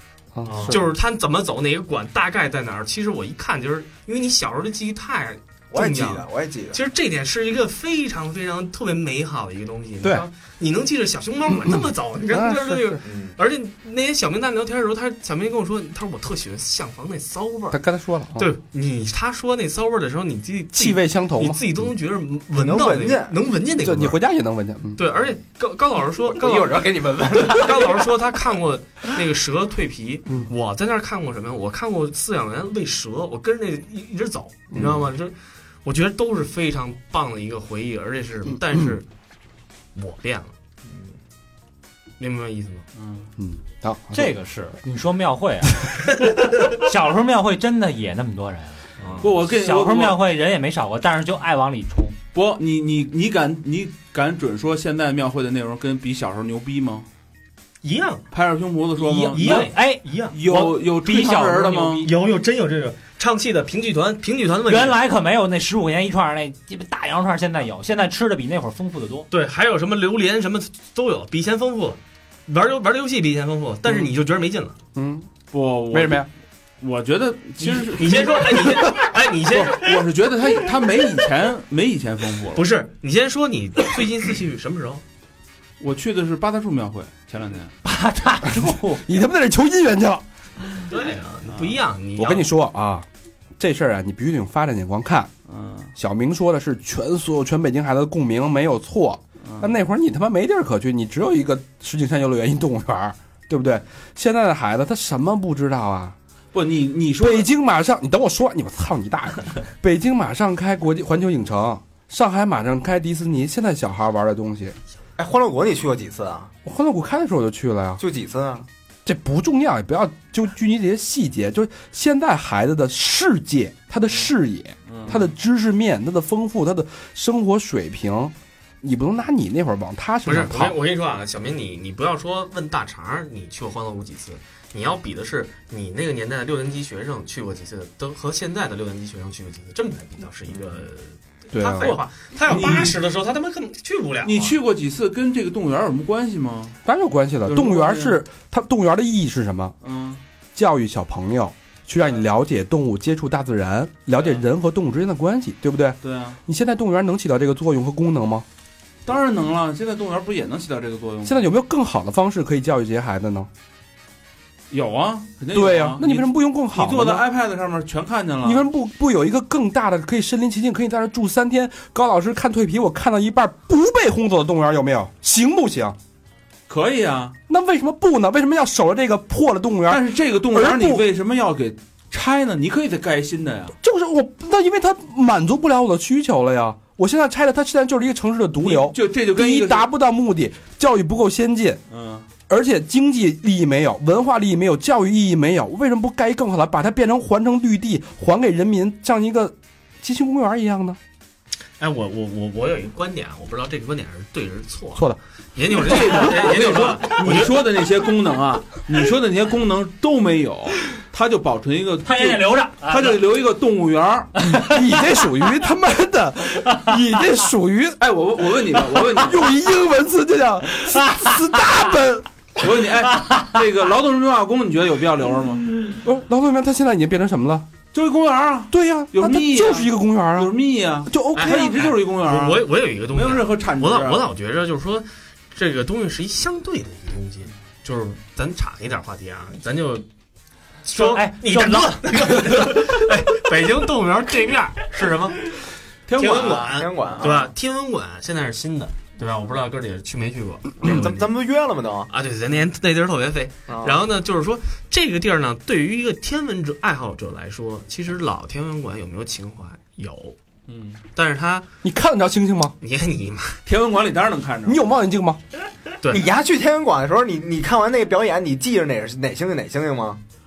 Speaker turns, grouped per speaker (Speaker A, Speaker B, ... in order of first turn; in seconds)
Speaker A: 0.3-0.9, 11.6-13.0, 17.7-18.5, 20.7-21.7, 23.8-25.0, 34.7-35.0, 43.4-44.3, 75.0-75.3, 75.9-76.3, 88.9-90.2, 92.2-93.0, 93.6-95.3, 95.9-106.2, 107.2-114.8, 116.6-118.0, 119.0-130.8, 141.5-142.0, 146.8-149.8, 150.5-158.4, 161.2-163.5, 165.5-167.2, 168.4-176.0, 177.5-181.0, 183.8-191.8, 192.5-201.0, 214.7-218.0, 219.1-222.3, 225.9-227.7, 228.7-230.5, 231.0-231.8, 261.8-262.7, 264.6-265.4
Speaker B: 0.4-17.8, 18.4-24.2, 24.9-39.0, 39.9-40.5, 42.2-42.9, 57.8-58.3, 59.1-60.4, 62.0-65.0, 69.3-74.8, 77.8-80.0, 82.5-85.0, 90.9-92.5, 130.2-144.6, 201.8-207.7, 231.3-240.1, 240.8-245.6, 246.2-251.3, 252.1-260.4, 261.1-261.7, 262.8-263.6, 266.0-266.3
Speaker C: 5.7-6.8, 13.0-13.3, 22.5-23.3, 26.2-28.1, 40.9-41.1, 115.2-116.5, 118.0-118.7, 246.4-247.4, 250.8-252.1, 253.7-254.0, 266.1-270.2
Speaker D: 43.0-43.3, 49.1-50.2, 52.3-57.1, 58.3-59.7, 60.3-62.1, 75.5-76.3, 76.8-82.7, 85.8-87.7, 91.5-91.8, 95.5-95.9, 99.5-99.7, 106.5-107.5, 124.9-125.3, 142.5-143.0, 144.2-146.8, 147.4-148.2, 149.8-150.2, 154.1-154.4, 156.0-156.4, 159.1-161.4, 164.7-168.6, 176.7-177.3, 179.9-183.7, 188.6-189.8, 191.9-192.3, 205.7-214.3, 218.0-219.4, 222.6-225.6, 227.9-234.3, 246.1-247.3, 260.7-261.0, 263.6-264.8
Speaker E: 44.1-52.1, 59.0-62.1, 64.7-69.3, 87.8-89.0, 212.0-213.2, 240.9-242.7